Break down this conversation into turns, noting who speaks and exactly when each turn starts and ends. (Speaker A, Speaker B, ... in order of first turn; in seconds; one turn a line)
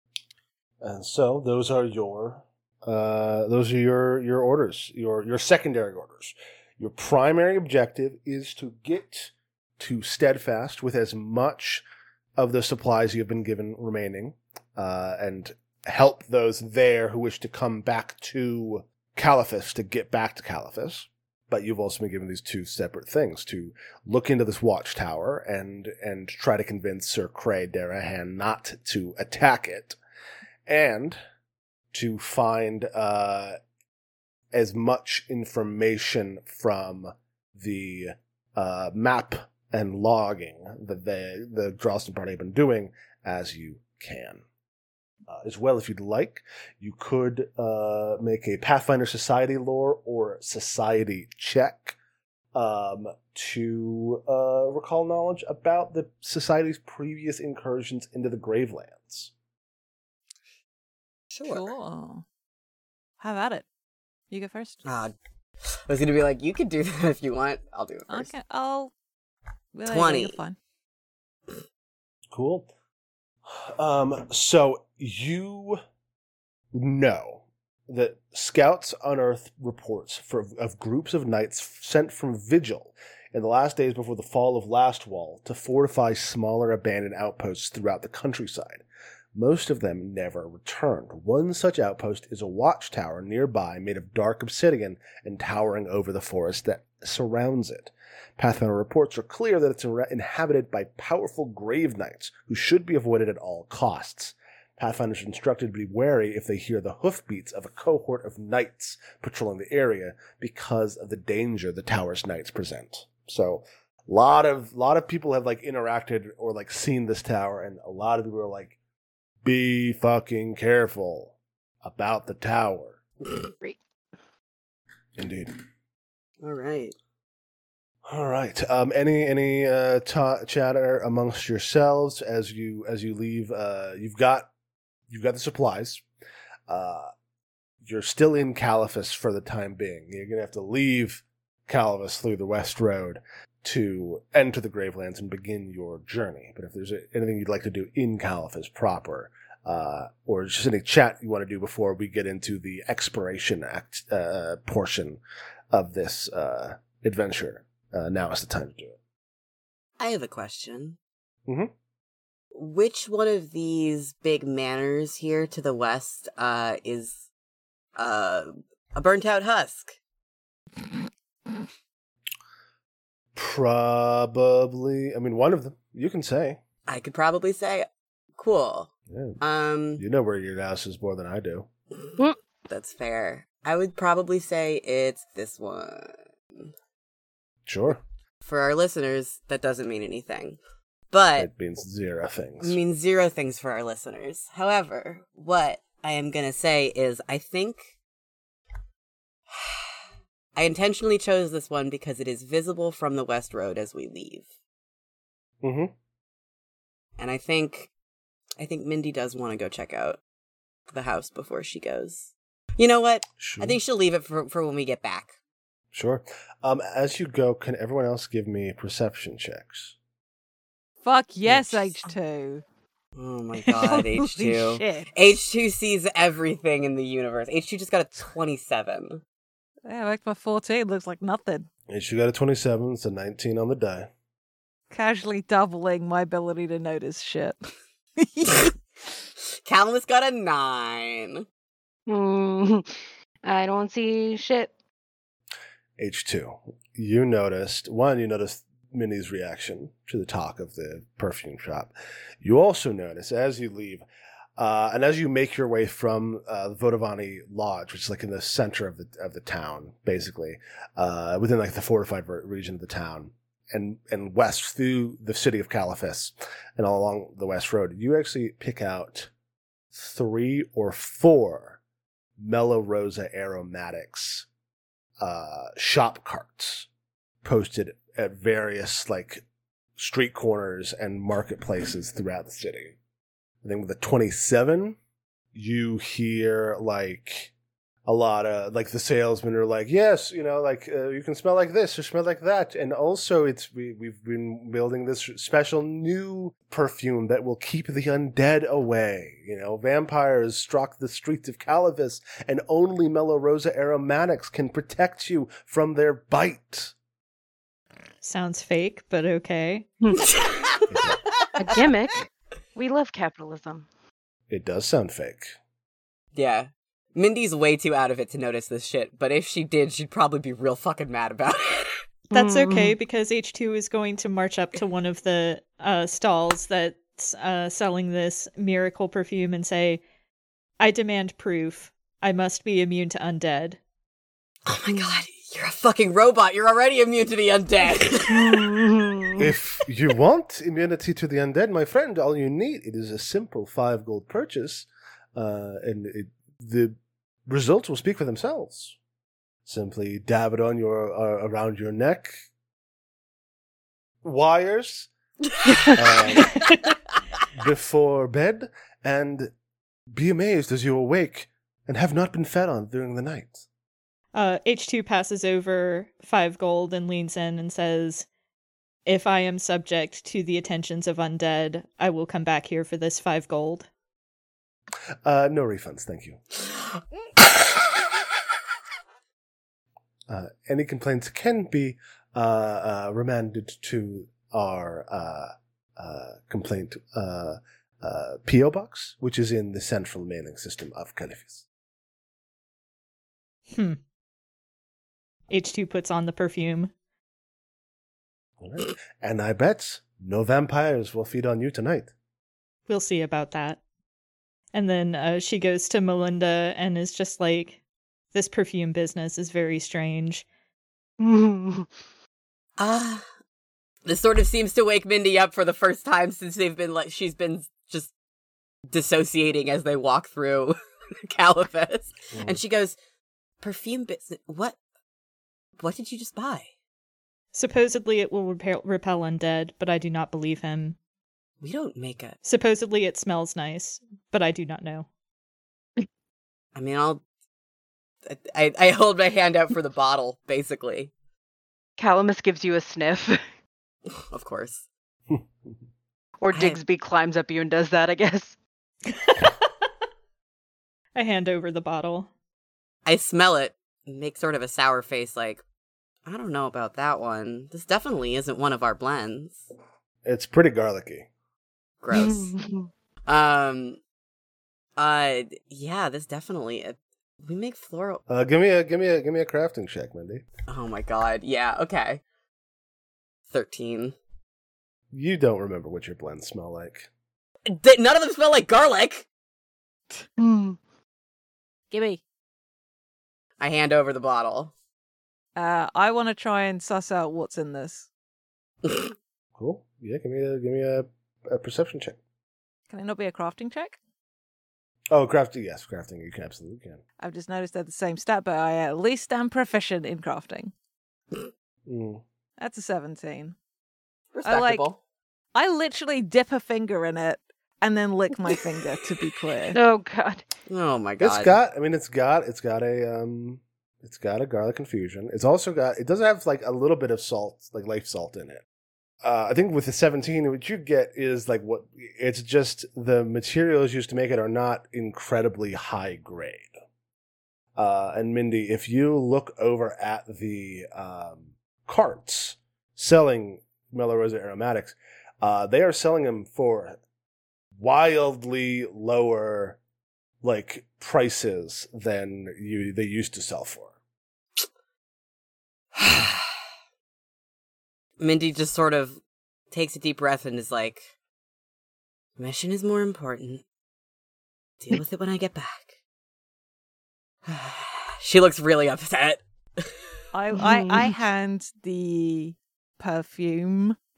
Speaker A: 0.8-11.8
Speaker A: 12.4-30.0
Speaker A: 30.7-31.2
Speaker A: 31.9-33.6
Speaker A: 34.5-44.4
Speaker A: 45.3-52.0
Speaker A: 52.5-59.3
Speaker B: 61.3-61.7
Speaker C: 61.5-62.2
Speaker C: 63.2-63.7
Speaker C: 64.3-64.8
Speaker B: 64.9-68.3
Speaker C: 68.1-68.9
Speaker C: 69.7-70.6
Speaker B: 69.9-70.4
Speaker A: 72.3-72.7
Speaker A: 73.5-75.8
Speaker A: 76.7-88.8
Speaker A: 89.3-118.8
Speaker A: 119.4-123.0
Speaker A: 125.2-125.5
Speaker B: 126.4-127.0
Speaker A: 128.1-134.5
Speaker A: 135.1-136.0
Speaker A: 136.7-137.1
Speaker A: 137.8-155.2
Speaker A: 155.7-159.0
Speaker B: 160.0-161.0
Speaker B: 162.5-167.2
Speaker B: 168.0-170.0
Speaker A: 173.3-176.6
Speaker B: 176.9-180.0
Speaker A: 179.1-179.4
Speaker A: 180.0-181.7
Speaker B: 182.7-186.7
Speaker A: 187.7-188.0
Speaker B: 188.4-190.6
Speaker B: 191.1-191.5
Speaker A: 191.4-192.8
Speaker B: 192.6-197.9
Speaker B: 199.5-200.0
Speaker B: 200.6-204.5
Speaker A: 205.6-205.9
Speaker B: 207.2-207.9
Speaker B: 208.6-210.2
Speaker B: 210.9-215.3
Speaker A: 213.4-213.8
Speaker A: 215.9-219.9
Speaker C: 221.0-222.6
Speaker A: 221.5-221.8
Speaker B: 223.2-229.2
Speaker C: 223.8-225.1
Speaker C: 229.8-231.7
Speaker A: 231.9-234.1
Speaker C: 234.9-238.8
Speaker B: 239.7-241.4
Speaker D: 242.1-244.7
Speaker A: 246.0-254.1
Speaker A: 254.6-269.3
Speaker A: 269.9-271.8
Speaker A: 272.4-274.5
Speaker A: 275.2-276.9
Speaker A: 277.4-279.4
Speaker A: 280.0-283.0
Speaker A: 283.6-285.0
Speaker A: 285.5-287.5
Speaker A: 288.1-306.9
Speaker E: 308.2-309.9
Speaker D: 310.0-310.3
Speaker B: 310.3-310.8
Speaker A: 310.9-311.2
Speaker D: 311.6-313.9
Speaker A: 314.5-315.6
Speaker B: 316.3-322.0
Speaker E: 322.3-330.0
Speaker D: 322.3-322.9
Speaker E: 330.8-333.8
Speaker B: 334.7-338.8
Speaker D: 338.3-339.5
Speaker A: 339.4-349.0
Speaker A: 349.7-352.4
Speaker A: 354.2-355.1
Speaker B: 355.6-355.9
Speaker A: 355.9-356.6
Speaker A: 357.6-359.5
Speaker A: 360.1-363.6
Speaker E: 364.3-368.3
Speaker E: 369.1-373.9
Speaker A: 375.2-376.4
Speaker A: 380.3-391.6
Speaker E: 393.7-394.0
Speaker E: 395.5-396.9
Speaker A: 398.6-402.1
Speaker E: 402.9-403.8
Speaker E: 404.7-407.8
Speaker E: 408.3-410.5
Speaker D: 411.2-411.9
Speaker B: 412.8-413.3
Speaker B: 414.1-418.1
Speaker B: 418.9-423.0
Speaker B: 423.6-424.8
Speaker B: 425.8-426.7
Speaker E: 427.5-431.0
Speaker B: 431.6-432.4
Speaker E: 432.4-435.1
Speaker B: 436.8-437.2
Speaker B: 438.2-441.1
Speaker D: 442.0-443.4
Speaker B: 444.3-444.8
Speaker D: 446.4-448.6
Speaker B: 446.5-446.8
Speaker E: 451.1-452.3
Speaker B: 453.1-455.6
Speaker B: 456.3-459.7
Speaker A: 460.2-461.3
Speaker B: 462.0-462.5
Speaker D: 462.1-462.9
Speaker B: 463.3-464.0
Speaker B: 465.0-468.2
Speaker A: 468.3-470.4
Speaker B: 470.7-472.2
Speaker B: 473.5-474.2
Speaker A: 475.1-477.1
Speaker B: 477.7-479.3
Speaker D: 480.4-480.8
Speaker C: 481.9-482.2
Speaker B: 483.6-484.7
Speaker C: 485.6-488.1
Speaker A: 489.6-492.2
Speaker C: 492.9-494.0
Speaker A: 495.1-497.0
Speaker C: 497.2-500.7
Speaker A: 501.9-502.2
Speaker C: 502.6-503.6
Speaker B: 504.3-505.0
Speaker C: 504.4-504.9
Speaker C: 505.6-509.8
Speaker D: 509.7-510.4
Speaker B: 510.7-511.6
Speaker A: 511.2-518.6
Speaker A: 519.2-526.7
Speaker A: 527.8-537.0
Speaker A: 537.8-539.8
Speaker A: 540.4-543.9
Speaker B: 546.0-546.5
Speaker B: 548.2-551.1
Speaker B: 552.4-553.6
Speaker B: 554.8-555.9
Speaker B: 557.5-560.1
Speaker C: 560.3-564.0
Speaker D: 560.5-561.1